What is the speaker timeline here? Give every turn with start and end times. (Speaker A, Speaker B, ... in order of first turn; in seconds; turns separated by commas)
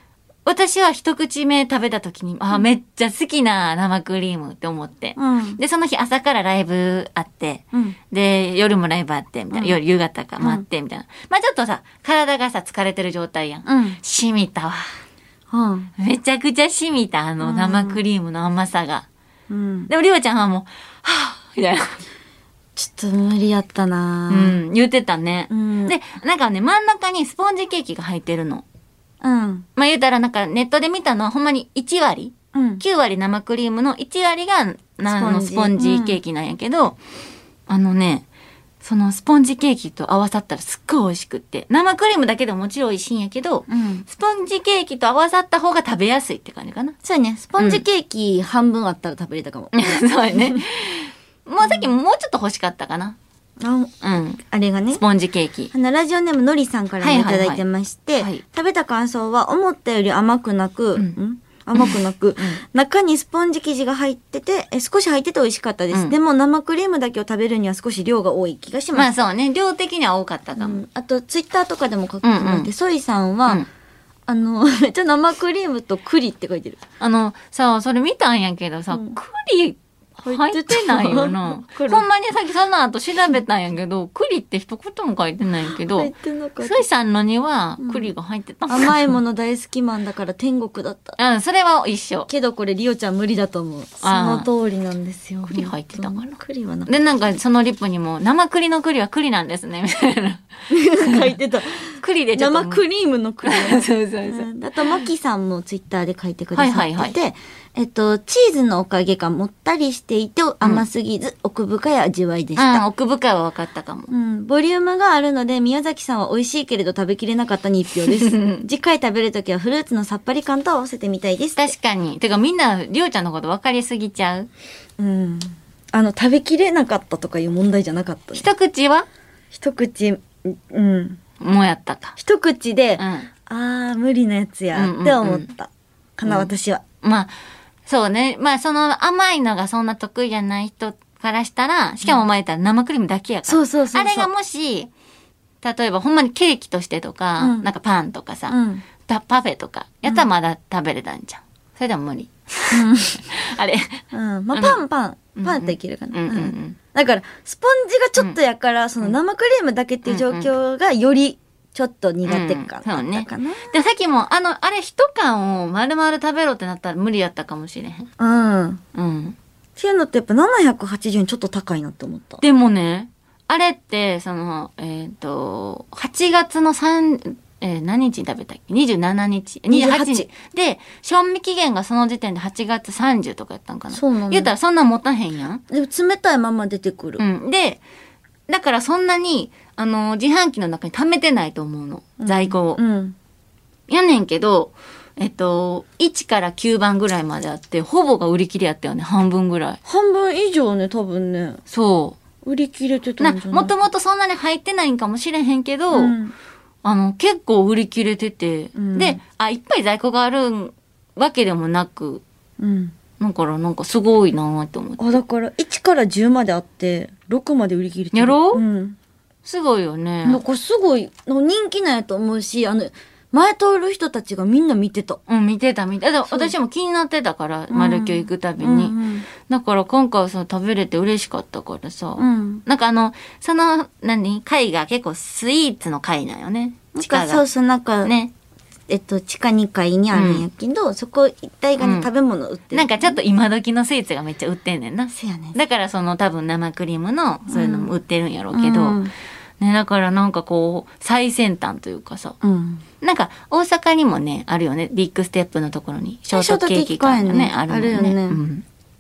Speaker A: 0.5-14.9, Speaker B: 5.2-5.6, Speaker B: 10.4-10.7, Speaker B: 13.7-14.0, Speaker B: 15.5-15.9, Speaker A: 16.0-19.1, Speaker B: 17.4-18.0, Speaker B: 19.5-19.9, Speaker A: 19.9-22.0, Speaker B: 22.8-24.6, Speaker A: 24.3-28.6, Speaker B: 25.5-26.0, Speaker B: 29.2-29.7, Speaker A: 29.8-37.0, Speaker B: 32.5-32.8, Speaker B: 35.1-36.2, Speaker A: 37.7-38.2, Speaker A: 38.8-47.0, Speaker B: 43.7-44.0, Speaker B: 47.0-50.6, Speaker A: 47.6-47.8, Speaker A: 49.7-53.2, Speaker B: 53.6-53.9, Speaker A: 54.0-54.4, Speaker B: 54.5-55.0, Speaker A: 55.0-55.7, Speaker B: 55.7-69.1, Speaker A: 57.0-57.6, Speaker A: 58.2-58.4, Speaker A: 61.8-62.6, Speaker A: 68.9-70.8, Speaker B: 70.6-73.7, Speaker A: 72.2-72.7, Speaker B: 74.3-76.8, Speaker A: 77.0-89.2, Speaker B: 80.2-82.1, Speaker B: 86.0-86.8, Speaker B: 87.8-88.1, Speaker B: 88.7-91.2, Speaker A: 91.2-92.3, Speaker B: 92.3-96.9, Speaker A: 94.0-94.5, Speaker A: 95.5-96.4, Speaker A: 96.9-100.5, Speaker B: 100.7-112.8, Speaker A: 101.0-101.4, Speaker A: 102.0-102.8, Speaker A: 103.5-105.1, Speaker A: 106.5-107.2, Speaker A: 112.6-114.1, Speaker B: 114.1-121.7, Speaker A: 118.0-118.6, Speaker A: 121.6-124.5, Speaker B: 125.0-128.5, Speaker A: 128.3-129.1, Speaker B: 129.5-131.2, Speaker A: 131.4-132.2, Speaker B: 132.2-136.8, Speaker A: 133.0-133.3, Speaker A: 134.8-135.5, Speaker A: 136.2-136.5, Speaker A: 137.0-137.3, Speaker A: 137.9-144.9, Speaker B: 143.5-144.3, Speaker A: 145.6-154.0, Speaker B: 147.4-147.7, Speaker B: 148.5-148.8, Speaker B: 152.7-153.2, Speaker B: 154.1-163.7, Speaker A: 154.5-154.8, Speaker A: 155.4-156.8, Speaker A: 160.1-160.5, Speaker A: 162.3-168.1, Speaker B: 168.2-168.8, Speaker A: 168.9-169.4, Speaker B: 169.8-172.4, Speaker A: 172.4-185.6, Speaker B: 179.7-180.3, Speaker B: 183.9-184.5, Speaker B: 185.7-187.2, Speaker A: 187.2-187.8, Speaker A: 188.5-192.8, Speaker B: 192.2-193.2, Speaker A: 193.9-199.8, Speaker B: 199.8-201.6, Speaker A: 201.7-202.2, Speaker B: 202.4-203.7, Speaker A: 203.2-206.2, Speaker B: 205.9-206.3, Speaker A: 206.8-212.2, Speaker B: 208.8-209.2, Speaker B: 212.6-212.9, Speaker A: 213.2-215.2, Speaker B: 215.0-219.0, Speaker A: 218.1-218.6, Speaker A: 219.4-220.4, Speaker B: 220.2-225.2, Speaker A: 225.3-237.4, Speaker B: 226.3-226.5, Speaker B: 227.7-229.3, Speaker B: 232.2-232.6, Speaker B: 236.9-238.1, Speaker A: 238.1-238.3, Speaker B: 238.9-243.2, Speaker A: 240.1-240.4, Speaker A: 241.8-242.1, Speaker A: 242.7-249.0, Speaker B: 245.1-245.6, Speaker B: 247.5-247.9, Speaker B: 248.5-249.1, Speaker A: 249.6-252.4, Speaker B: 252.4-252.8, Speaker A: 253.0-258.6, Speaker B: 256.3-258.4